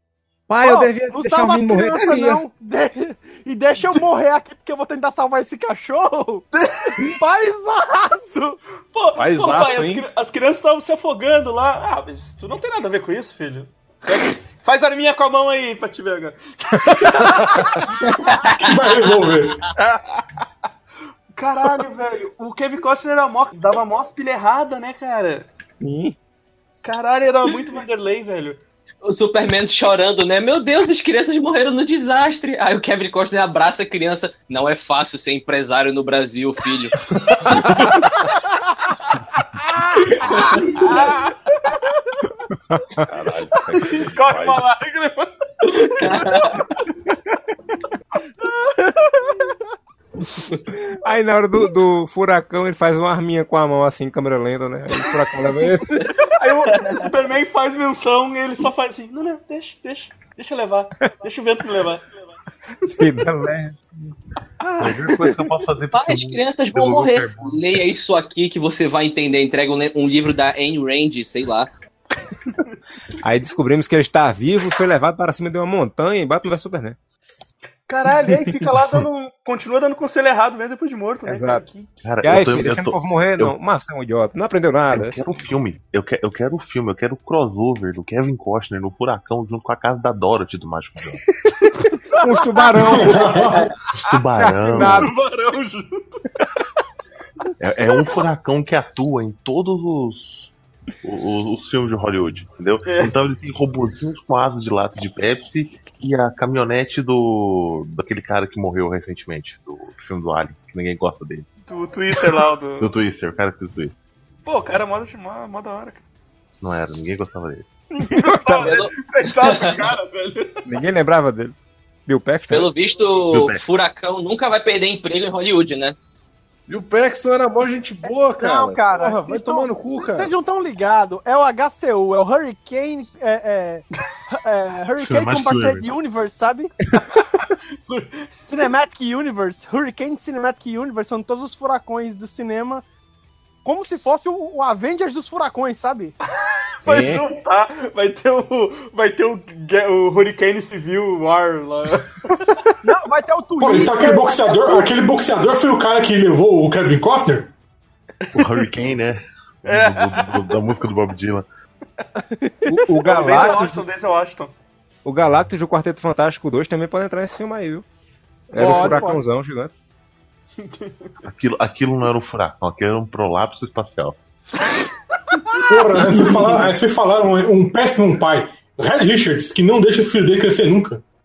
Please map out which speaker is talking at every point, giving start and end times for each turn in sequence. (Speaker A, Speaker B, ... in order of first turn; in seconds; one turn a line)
Speaker A: 0.5-2.4
Speaker B: 0.6-8.6
Speaker C: 6.5-7.0
Speaker C: 8.9-18.0
Speaker D: 9.2-10.1
Speaker E: 18.0-18.8
Speaker F: 18.5-19.6
Speaker C: 21.3-25.5
Speaker A: 25.8-26.2
Speaker C: 26.8-28.6
Speaker E: 29.0-37.0
Speaker E: 37.6-37.9
Speaker C: 40.2-41.3
Speaker E: 40.2-40.6
Speaker A: 42.7-43.0
Speaker G: 43.2-44.6
Speaker C: 43.5-46.6
Speaker E: 45.7-46.6
Speaker B: 48.7-49.5
Speaker A: 50.9-55.9
Speaker C: 56.0-62.2
Speaker A: 62.9-63.8
Speaker A: 64.6-65.4
Speaker G: 64.8-67.6
Speaker E: 65.9-71.7
Speaker A: 73.2-77.0
Speaker C: 77.9-81.9
Speaker A: 81.2-81.6
Speaker G: 82.0-83.5
Speaker A: 82.2-85.2
Speaker G: 84.9-91.2
Speaker A: 92.2-93.6
Speaker F: 92.8-93.7
Speaker G: 93.9-95.1
Speaker A: 94.4-95.1
Speaker C: 94.8-96.2
Speaker G: 97.6-111.5
Speaker C: 102.9-103.2
Speaker C: 111.7-112.9
Speaker G: 112.1-114.0
Speaker C: 114.5-116.0
Speaker G: 116.6-117.7
Speaker C: 118.0-120.7
Speaker E: 118.5-119.9
Speaker A: 120.7-121.5
Speaker A: 122.1-122.7
Speaker E: 122.5-126.0
Speaker G: 123.2-123.6
Speaker D: 126.7-130.3
Speaker B: 128.1-136.7
Speaker G: 135.0-135.9
Speaker C: 137.9-138.2
Speaker B: 138.5-142.8
Speaker B: 143.7-146.1
Speaker C: 146.4-152.7
Speaker A: 146.9-147.2
Speaker B: 152.8-154.9
Speaker F: 153.6-157.5
Speaker G: 158.3-161.5
Speaker C: 158.4-158.7
Speaker C: 159.7-160.6
Speaker B: 162.3-162.8
Speaker A: 162.7-163.8
Speaker C: 163.0-164.5
Speaker A: 165.0-167.8
Speaker A: 168.5-169.7
Speaker B: 168.5-169.2
Speaker C: 168.6-169.1
Speaker C: 170.6-171.1
Speaker G: 171.2-174.2
Speaker C: 175.5-176.2
Speaker F: 175.7-181.0